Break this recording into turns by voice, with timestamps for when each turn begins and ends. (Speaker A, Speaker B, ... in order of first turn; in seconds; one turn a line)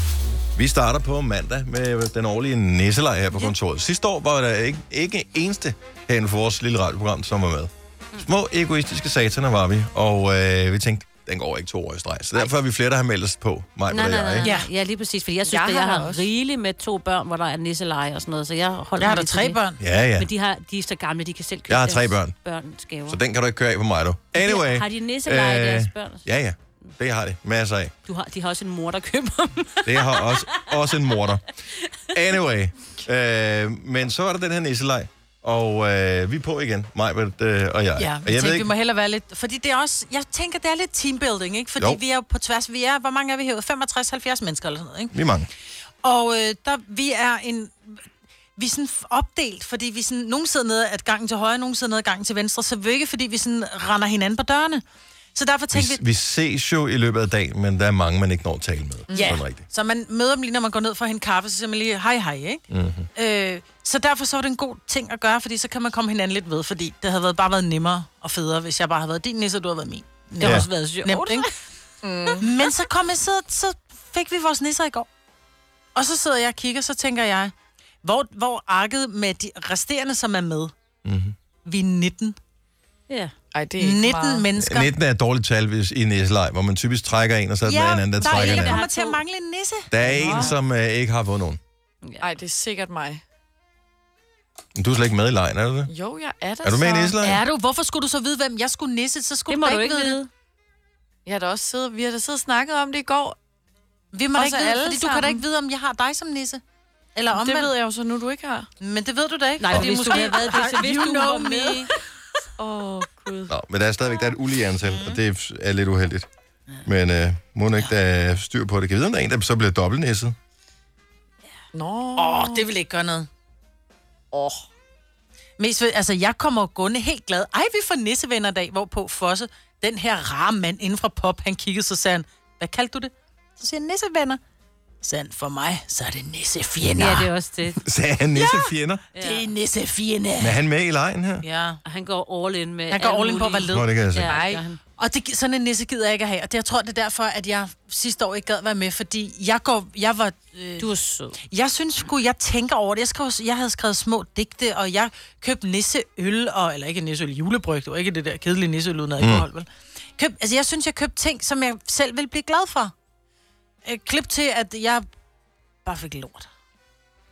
Speaker A: 0.6-14.5
Speaker B: 13.9-19.6
Speaker C: 15.4-16.3
Speaker D: 19.0-19.8
Speaker A: 19.8-20.3
Speaker B: 20.1-23.2
Speaker A: 21.7-22.3
Speaker A: 23.1-27.9
Speaker B: 24.3-26.2
Speaker B: 28.1-30.8
Speaker A: 29.8-31.5
Speaker A: 32.1-38.7
Speaker D: 38.0-45.1
Speaker A: 45.1-45.5
Speaker D: 46.0-48.0
Speaker D: 48.6-54.8
Speaker D: 55.3-56.0
Speaker A: 55.7-59.6
Speaker C: 59.1-59.4
Speaker D: 59.1-71.5
Speaker A: 62.7-63.1
Speaker B: 70.4-71.6
Speaker A: 70.4-70.7
Speaker C: 72.0-72.5
Speaker D: 72.4-75.1
Speaker D: 75.9-80.7
Speaker A: 81.0-81.3
Speaker D: 81.6-82.3
Speaker C: 83.5-84.5
Speaker D: 83.8-84.9
Speaker A: 84.6-88.8
Speaker D: 87.6-90.5
Speaker B: 88.2-89.2
Speaker A: 89.9-91.6
Speaker C: 90.1-90.5
Speaker B: 92.0-92.3
Speaker C: 92.2-93.2
Speaker A: 94.7-95.9
Speaker C: 95.9-97.2
Speaker A: 96.6-97.4
Speaker D: 97.2-100.2
Speaker B: 99.5-100.3
Speaker C: 101.2-103.3
Speaker D: 104.1-106.6
Speaker C: 104.3-105.4
Speaker D: 107.1-107.7
Speaker C: 107.3-108.7
Speaker D: 108.8-111.9
Speaker B: 109.6-111.9
Speaker C: 109.8-111.3
Speaker C: 112.6-113.5
Speaker A: 113.5-116.3
Speaker D: 114.8-115.2
Speaker A: 116.8-120.3
Speaker C: 121.7-122.7
Speaker D: 122.2-123.3
Speaker C: 124.3-124.6
Speaker D: 125.6-134.4
Speaker D: 135.0-137.3
Speaker B: 136.9-137.8
Speaker A: 137.8-139.0
Speaker D: 138.3-140.6
Speaker B: 139.1-139.4
Speaker A: 140.4-141.4
Speaker D: 141.4-141.8
Speaker B: 141.8-144.8
Speaker D: 142.9-150.9
Speaker A: 143.7-144.4
Speaker B: 150.8-151.4
Speaker D: 151.4-159.7
Speaker A: 159.2-159.5
Speaker D: 160.2-162.9
Speaker D: 163.8-165.0
Speaker D: 165.8-166.5